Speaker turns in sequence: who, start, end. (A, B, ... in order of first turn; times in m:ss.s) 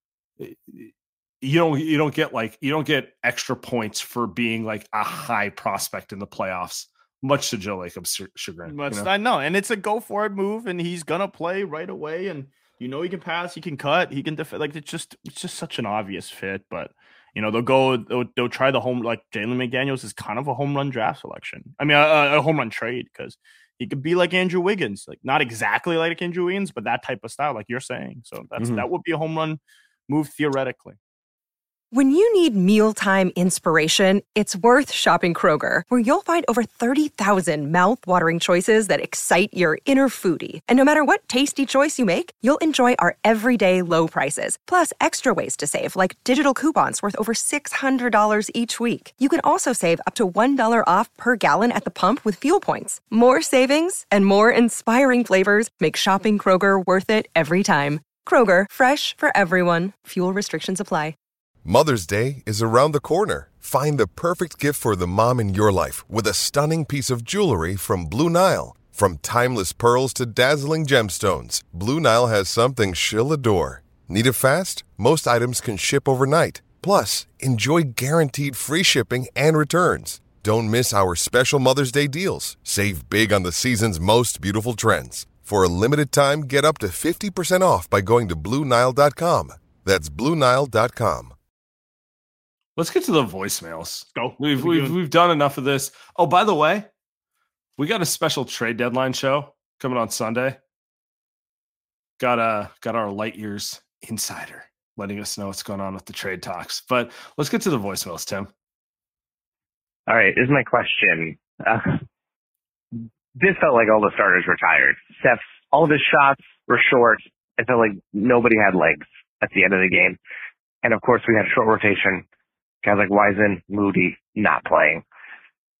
0:00.4-0:09.1 A
0:08.7-0:31.0 B
0:28.6-0:28.8 A
0:31.9-1:01.1 C
1:01.6-1:31.3 D
1:32.8-1:36.9 A
1:34.1-1:35.0 B
1:37.8-1:40.6 A
1:42.2-1:48.5 A
1:50.1-1:52.0 E
1:53.4-2:00.2 E
2:00.8-2:02.2 E
2:02.8-2:05.0 E